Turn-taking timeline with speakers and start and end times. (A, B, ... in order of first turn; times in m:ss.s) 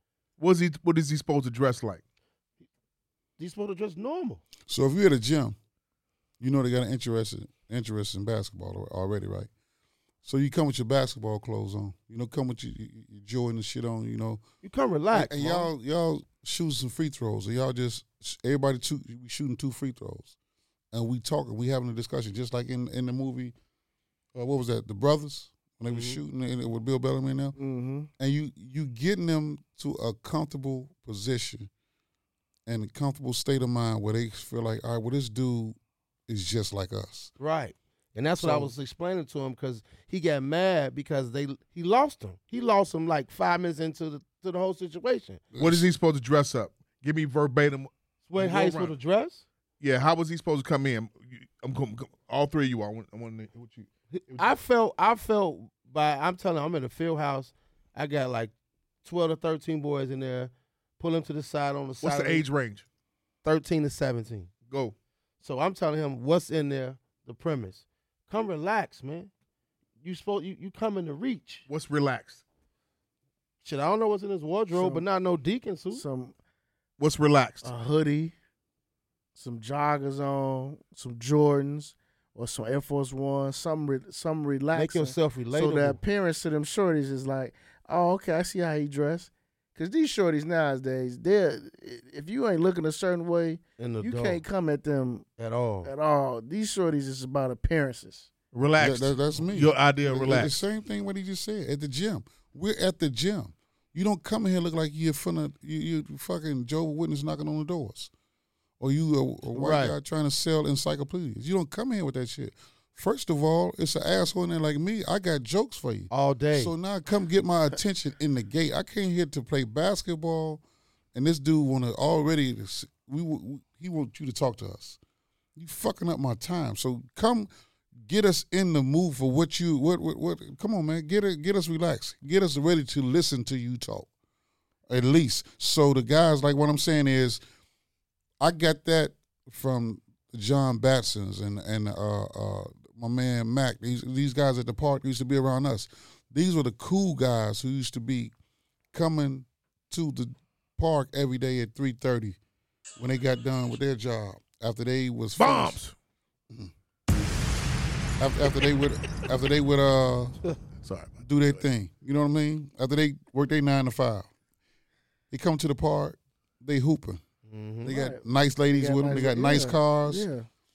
0:00.4-0:02.0 A
0:03.4-0:04.4 B
0:04.6-0:05.6 C
0:06.4-0:09.5 C
0:10.2-0:14.4 C
0:14.6-0:15.7 B
0:15.1-0:20.4 C
0:20.9-0:23.5 C
0:24.3-0:27.6 C
0:25.9-0:26.2 B
0:27.6-0:28.1 D
0:28.2-0:31.7 C
0:32.6-0:35.8 C
0:36.3-0:37.3 C
0:37.4-0:45.5 B
0:45.5-0:45.8 C
0:45.6-0:48.9 A
0:48.2-0:49.4 B
0:49.8-0:54.5 A
0:54.1-0:58.5 B
0:59.0-1:02.4 B
1:02.0-1:02.8 A
1:03.4-1:04.5 B
1:04.6-1:04.9 A
1:05.4-1:09.3 B
1:10.0-1:11.6 B
1:11.7-1:12.4 A
1:13.6-1:16.0 B
1:14.7-1:15.0 D
1:15.9-1:16.3 D
1:17.0-1:17.7 A
1:17.6-1:18.3 D
1:19.4-1:35.2 D
1:24.7-1:26.0 B
1:33.8-1:34.4 B
1:35.4-1:35.9 B
1:35.8-1:38.3 D
1:38.5-1:40.6 A
1:38.8-1:48.1 C
1:48.8-2:00.6 C
1:49.5-1:49.9 B
1:56.1-1:56.7 B
2:01.1-2:05.0 C
2:05.6-2:14.1 C
2:14.9-2:17.4 C
2:18.4-2:28.3 C
2:28.9-2:32.4 C
2:33.0-2:35.8 C
2:35.4-2:35.9 A
2:38.2-2:40.4 C
2:40.8-2:41.6 A
2:41.2-2:44.3 C
2:45.3-2:47.2 C
2:47.4-2:47.9 B
2:47.8-2:50.3 C
2:47.9-2:50.5 D